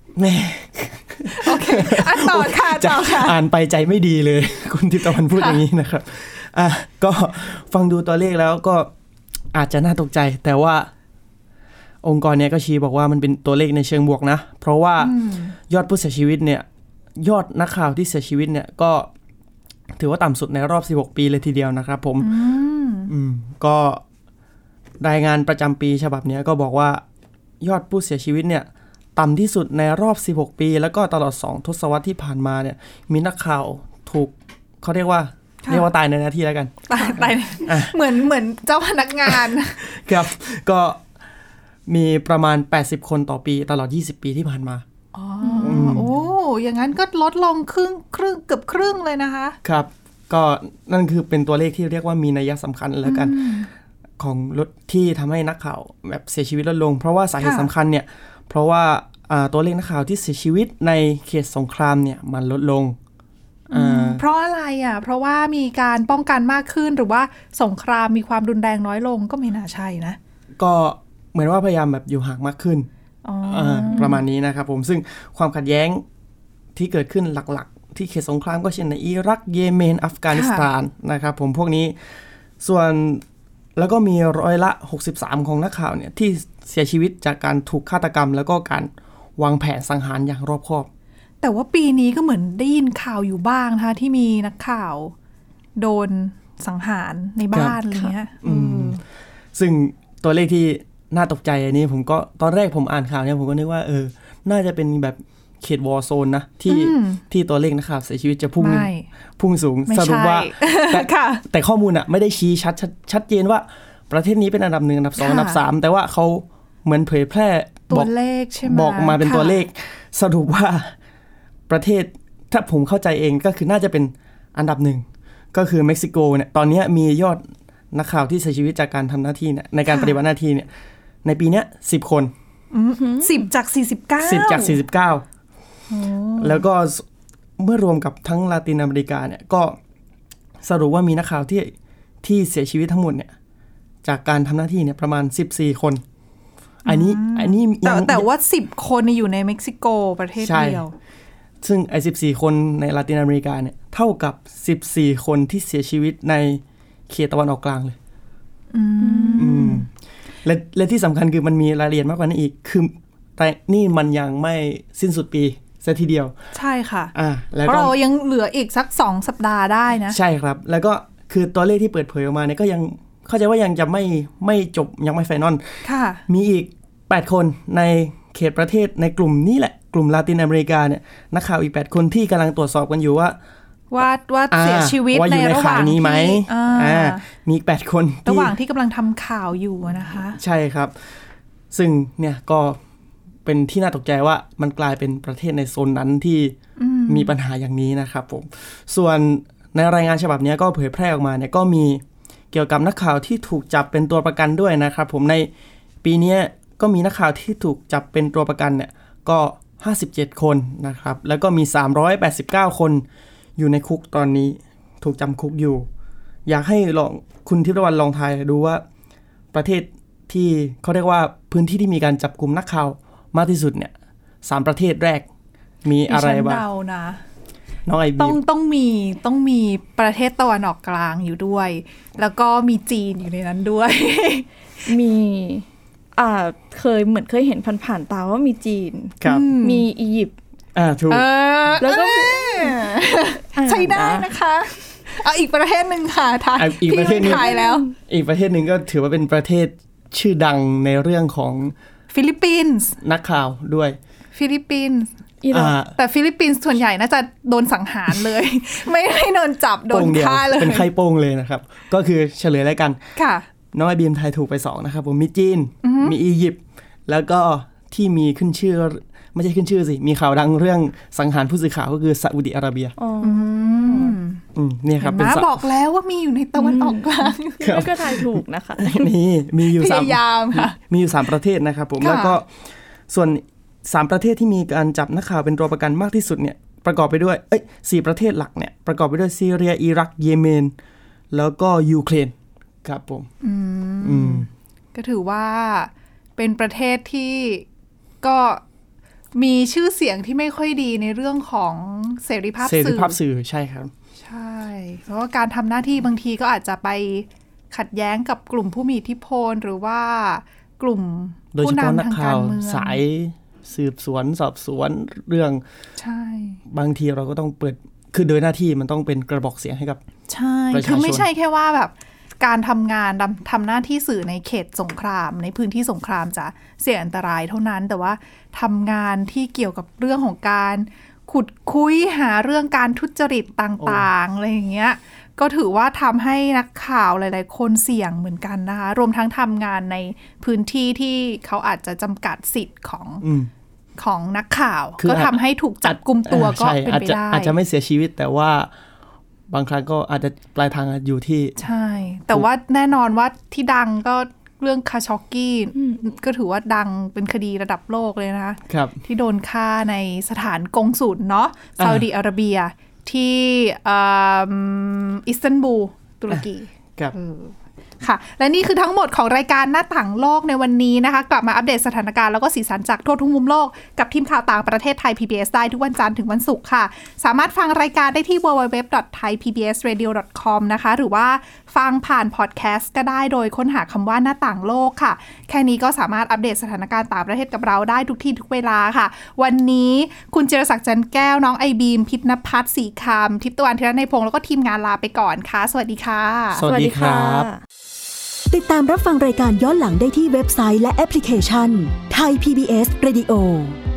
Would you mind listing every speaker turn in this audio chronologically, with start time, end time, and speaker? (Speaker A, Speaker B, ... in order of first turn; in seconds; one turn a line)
Speaker A: 0.1-8.9
Speaker B: 1.3-3.4
Speaker B: 5.3-5.6
Speaker A: 9.5-10.9
Speaker A: 12.0-15.2
Speaker B: 15.0-15.6
Speaker A: 15.7-16.6
Speaker A: 17.2-19.1
Speaker A: 20.0-22.3
Speaker B: 22.2-23.1
Speaker A: 23.1-24.0
Speaker A: 25.0-27.0
Speaker A: 27.6-37.9
Speaker B: 36.9-39.8
Speaker A: 39.3-41.0
Speaker A: 41.9-44.8
Speaker B: 45.1-49.6
Speaker C: 45.4-45.8
Speaker A: 45.6-46.2
Speaker A: 49.6-53.5
Speaker B: 53.0-53.7
Speaker A: 54.2-63.0
Speaker B: 57.4-57.7
Speaker B: 63.7-70.2
Speaker A: 63.7-64.2
Speaker A: 70.6-72.9
Speaker B: 73.2-74.2
Speaker A: 73.4-76.0
Speaker A: 76.7-81.9
Speaker B: 80.3-80.7
Speaker A: 82.6-83.2
Speaker A: 83.8-90.9
Speaker B: 91.4-95.1
Speaker B: 95.8-99.0
Speaker A: 98.4-99.0
Speaker A: 99.5-120.9
Speaker B: 106.7-107.2
Speaker B: 108.6-109.1
Speaker B: 109.9-111.4
Speaker B: 115.2-115.6
Speaker B: 117.9-119.6
Speaker A: 121.7-130.7
Speaker B: 129.9-130.2
Speaker A: 131.2-132.3
Speaker B: 132.7-134.8
Speaker C: 133.0-133.3
Speaker A: 134.2-135.2
Speaker B: 135.9-136.6
Speaker A: 136.4-137.0
Speaker A: 137.6-139.8
Speaker A: 140.6-143.3
Speaker A: 144.0-146.0
Speaker A: 146.8-148.2
Speaker B: 146.8-150.9
Speaker A: 150.4-150.8
Speaker A: 151.6-157.9
Speaker B: 158.7-159.8
Speaker C: 159.0-159.6
Speaker A: 159.3-159.9
Speaker A: 160.4-166.3
Speaker B: 166.5-167.1
Speaker A: 167.1-167.9
Speaker B: 167.6-170.2
Speaker A: 170.1-183.3
Speaker B: 175.8-176.2
Speaker B: 183.9-187.2
Speaker A: 184.5-188.5
Speaker B: 188.2-190.4
Speaker A: 190.3-190.9
Speaker A: 191.7-192.8
Speaker A: 193.4-196.6
Speaker B: 196.8-197.3
Speaker A: 197.1-205.5
Speaker A: 206.0-213.0
Speaker A: 213.6-215.8
Speaker A: 216.4-218.8
Speaker A: 219.5-223.9
Speaker A: 224.4-225.2
Speaker A: 225.8-226.6
Speaker B: 226.1-227.2
Speaker A: 227.9-228.4
Speaker B: 228.2-234.8
Speaker C: 234.8-240.3
Speaker A: 239.2-239.5
Speaker B: 239.2-239.9
Speaker A: 240.7-241.3
Speaker B: 241.1-247.9
Speaker C: 241.8-244.3
Speaker A: 246.6-251.7
Speaker C: 246.9-247.9
Speaker B: 252.1-253.0
Speaker A: 253.0-254.0
Speaker B: 254.3-255.1
Speaker C: 255.4-255.8
Speaker A: 255.5-255.9
Speaker B: 255.9-260.9
Speaker A: 259.9-263.0
Speaker B: 263.1-263.4
Speaker A: 263.7-272.9
Speaker B: 265.8-266.1
Speaker C: 273.0-274.1
Speaker B: 273.2-274.4
Speaker A: 274.5-275.6
Speaker B: 275.0-277.6
Speaker C: 276.5-279.1
Speaker A: 277.6-282.5
Speaker B: 279.8-280.7
Speaker B: 282.0-282.4
Speaker A: 283.1-290.7
Speaker A: 291.3-292.3
Speaker A: 292.8-293.3
Speaker B: 293.4-297.6
Speaker A: 294.0-294.5
Speaker B: 298.2-298.6
Speaker B: 299.3-303.2
Speaker A: 302.6-303.9
Speaker B: 304.2-313.0
Speaker A: 311.5-315.6
Speaker B: 316.0-316.6
Speaker A: 316.7-320.0
Speaker B: 320.3-343.2
Speaker A: 320.7-321.3
Speaker A: 333.8-334.1
Speaker A: 343.2-343.5
Speaker B: 344.0-347.5
Speaker A: 345.0-348.7
Speaker A: 349.5-351.6
Speaker B: 351.6-396.6
Speaker A: 358.7-359.0
Speaker A: 361.8-362.1
Speaker A: 396.6-397.5
Speaker C: 396.6-397.6
Speaker D: 398.5-403.8